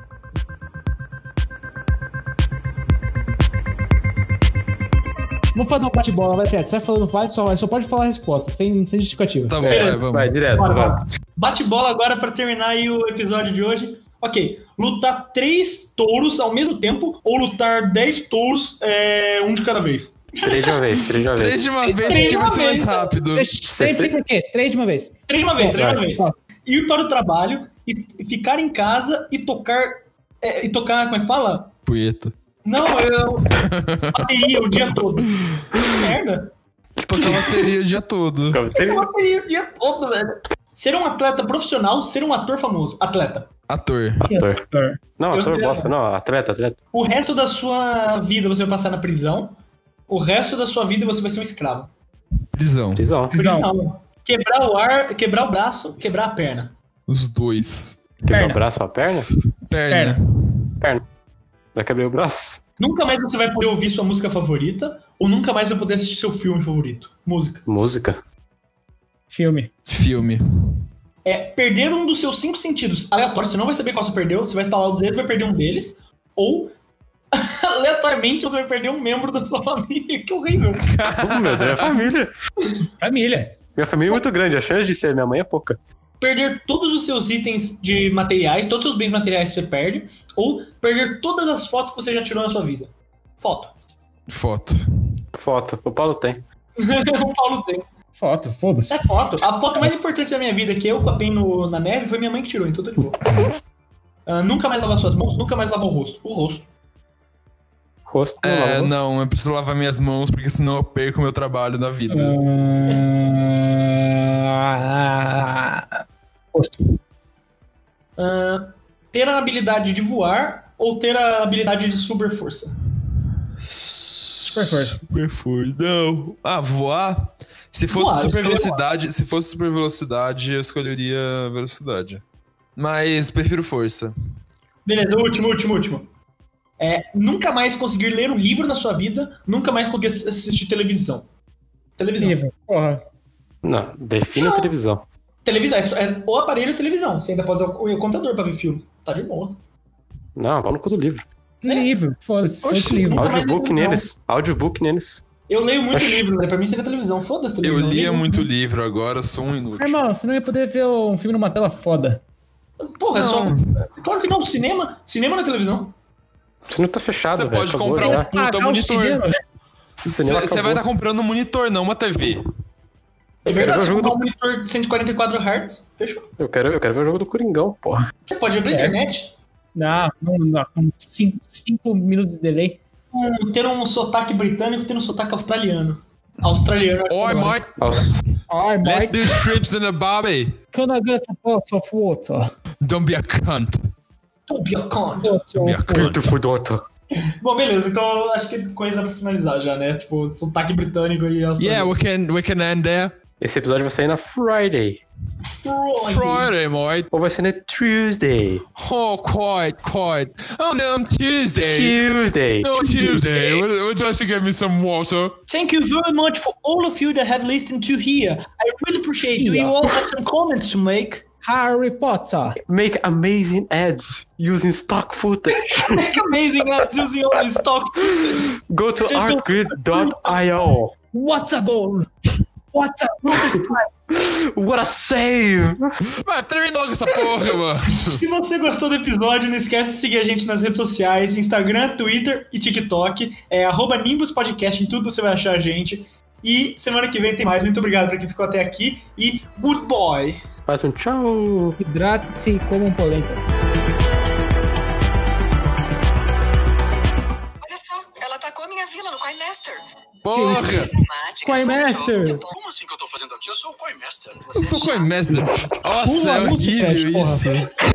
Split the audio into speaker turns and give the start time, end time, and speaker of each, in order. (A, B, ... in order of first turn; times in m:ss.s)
0:05.5-0:09.6 A
0:09.5-0:10.3 B
0:09.6-0:11.0 C
0:09.6-0:21.0 D
0:20.4-0:21.6 C
0:21.3-0:23.5 B
0:21.9-0:22.6 A
0:22.0-0:23.2 D
0:23.3-0:25.1 A
0:23.7-0:24.1 C
0:25.3-0:31.7 D
0:25.6-0:26.0 C
0:26.1-0:26.4 A
0:31.8-0:32.3 B
0:32.6-0:33.6 D
0:33.6-0:34.3 B
0:34.1-0:36.5 D
0:37.0-0:37.7 C
0:37.1-0:38.6 B
0:38.5-0:39.1 C
0:38.7-0:43.5 D
0:43.7-0:44.2 B
0:44.2-0:44.6 C
0:44.2-0:45.0 A
0:45.2-0:46.8 C
0:45.3-0:45.9 D
0:46.9-0:49.5 D
0:50.1-0:51.9 D
0:52.5-0:53.0 B
0:52.9-0:53.4 C
0:53.3-0:53.7 A
0:53.3-0:56.7 D
0:57.1-0:58.0 B
0:58.3-0:59.3 C
0:58.3-0:58.6 A
0:59.7-1:00.2 B
0:59.9-1:00.2 A
1:01.7-1:02.6 C
1:02.8-1:07.6 D
1:07.6-1:08.2 C
1:09.3-1:09.7 A
1:09.8-1:10.4 B
1:11.2-1:16.7 D
1:17.3-1:20.9 D
1:20.9-1:22.0 B
1:21.2-1:22.3 C
1:23.0-1:23.6 A
1:23.7-1:25.8 C
1:26.2-1:33.7 D
1:34.3-1:34.8 B
1:35.3-1:36.4 C
1:36.8-1:37.8 D
1:38.1-1:39.0 A
1:38.9-1:43.4 D
1:44.2-1:46.6 D
1:48.1-1:49.0 C
1:48.4-1:52.4 B
1:52.1-1:56.0 A
1:56.5-1:56.8 A
1:58.2-2:02.7 D
2:03.6-2:12.2 B
2:04.4-2:05.0 A
2:07.9-2:08.8 D
2:12.8-2:14.1 B
2:14.8-2:16.1 D
2:16.8-2:21.2 D
2:22.0-2:22.4 D
2:22.2-2:23.0 A
2:23.6-2:25.0 C
2:24.3-2:24.7 D
2:25.4-2:29.6 D
2:30.4-2:31.2 C
2:31.6-2:33.3 A
2:32.6-2:34.1 D
2:33.2-2:35.2 C
2:35.5-2:38.5 D
2:35.9-2:36.2 C
2:37.6-2:40.0 B
2:39.8-2:42.2 A
2:42.8-2:45.9 D
2:43.1-2:43.4 A
2:43.2-2:43.6 B
2:46.7-2:48.3 C
2:47.3-2:49.2 B
2:48.0-2:49.4 A
2:50.0-2:50.8 C
2:50.0-2:52.4 B
2:53.4-2:56.3 D
2:53.4-2:54.2 C
2:56.4-2:58.1 C
2:58.2-2:59.3 D
2:58.7-2:59.0 A
2:59.7-3:02.8 A
3:03.1-3:07.6 D
3:07.1-3:08.0 B
3:07.8-3:08.2 C
3:08.5-3:09.3 A
3:08.8-3:10.6 B
3:10.7-3:12.5 A
3:12.8-3:13.8 B
3:14.5-3:15.4 D
3:15.2-3:16.2 A
3:15.6-3:16.3 B
3:15.9-3:16.8 C
3:17.1-3:21.9 D
3:21.6-3:23.1 B
3:23.4-3:25.0 C
3:25.6-3:26.5 D
3:26.0-3:27.1 B
3:27.1-3:28.6 C
3:28.8-3:32.0 B
3:31.6-3:33.2 C
3:32.6-3:35.4 B
3:35.5-3:41.2 D
3:39.3-3:39.7 A
3:41.4-3:42.6 A
3:42.6-3:46.2 C
3:45.6-3:48.5 D
3:48.0-3:50.9 C
3:49.0-3:50.4 D
3:51.1-3:52.1 A
3:52.7-3:53.9 A
3:53.2-3:55.9 C
3:56.2-3:58.2 B
3:58.0-4:10.4 D
4:10.7-4:11.8 C
4:11.8-4:13.4 A
4:17.6-4:19.8 E
4:20.2-4:20.9 B
4:20.3-4:20.9 A
4:20.4-4:22.7 E
4:21.4-4:22.4 A
4:22.6-4:24.5 F
4:24.5-4:27.7 B
4:24.5-4:25.1 E
4:26.0-4:27.7 A